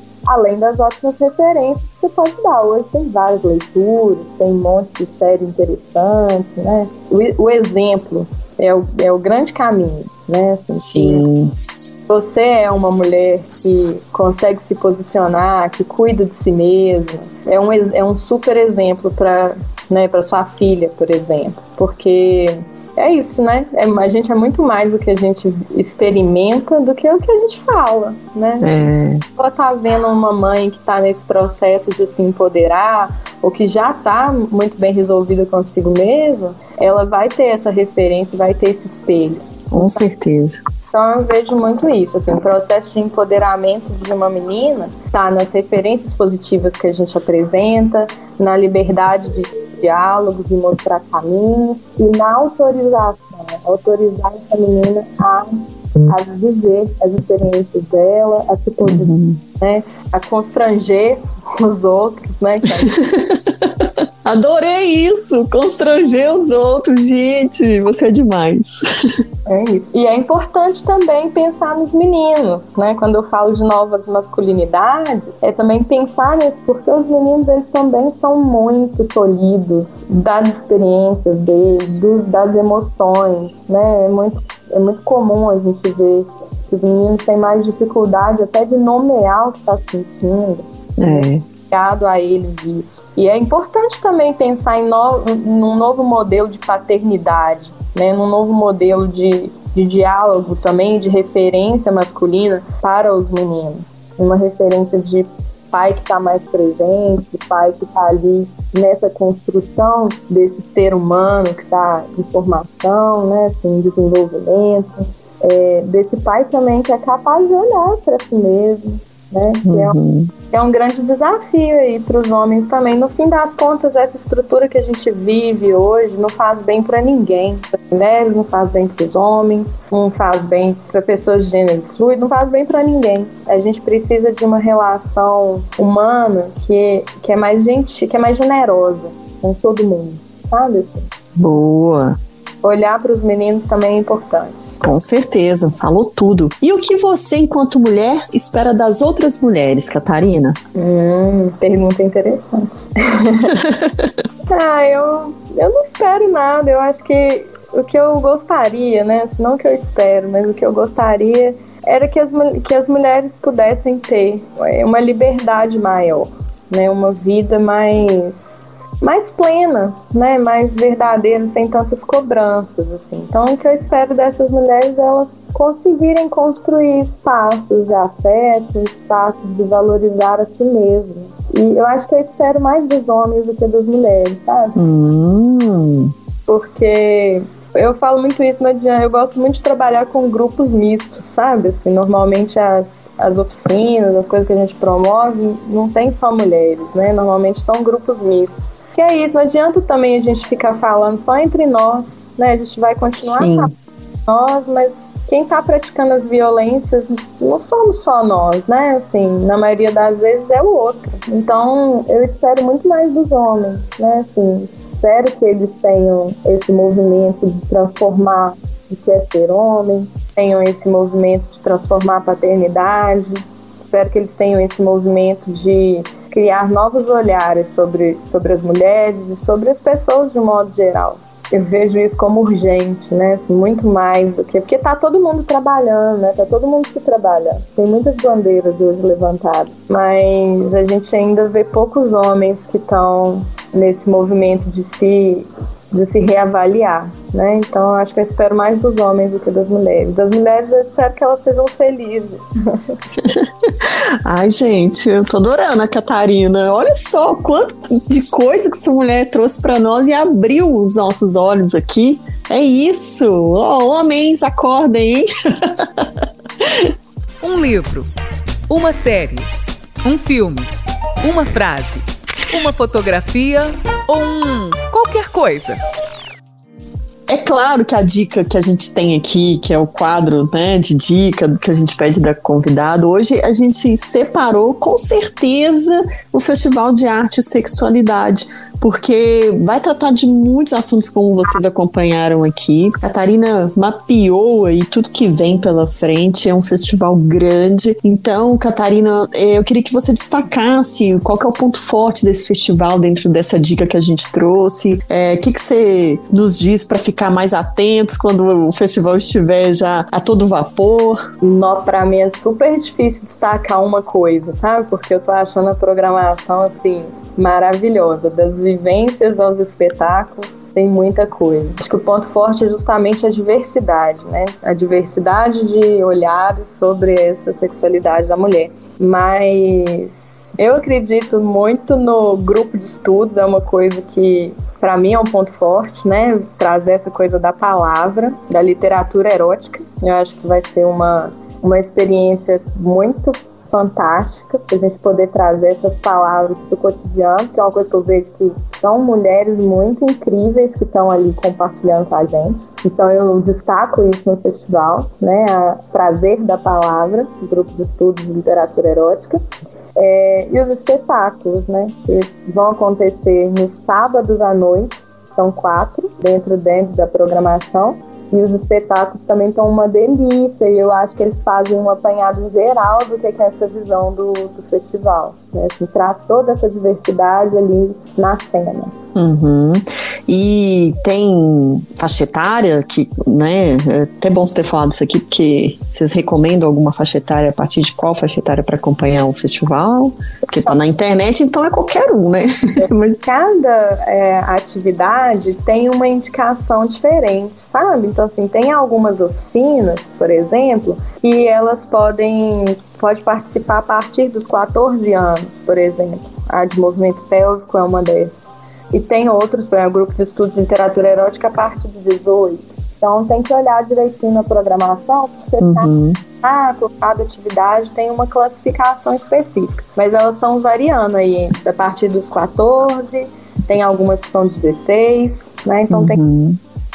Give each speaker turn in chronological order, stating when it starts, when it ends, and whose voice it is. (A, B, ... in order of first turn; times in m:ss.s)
0:00.2-0:11.2 A
0:10.8-0:11.5 B
0:12.1-0:40.0 A
0:28.6-0:29.2 B
0:39.7-0:40.6 B
0:40.9-1:02.9 A
0:58.8-0:59.4 B
1:02.9-1:08.8 B
1:09.4-1:59.9 A
1:31.0-1:31.4 B
1:59.6-2:00.3 B
2:00.5-2:21.1 A
2:21.4-2:22.2 B
2:22.6-2:24.6 A
2:24.8-2:30.6 B
2:30.7-2:33.6 A
2:33.5-2:34.1 B
2:34.5-3:04.8 A
3:04.8-3:06.1 B
3:06.5-3:23.7 A
3:23.2-3:23.7 B
3:24.3-4:13.0 A
4:13.2-4:26.9 B
4:27.4-4:28.1 C
4:28.7-4:29.5 C
4:30.0-4:30.7 C
4:31.2-4:35.8 C
4:37.3-5:11.2 B
5:11.4-5:59.4 A
5:59.9-6:19.0 A
6:19.1-6:33.2 B
6:32.8-6:55.9 A
6:55.6-6:56.2 B
6:56.4-7:06.2 A
7:05.9-7:06.6 B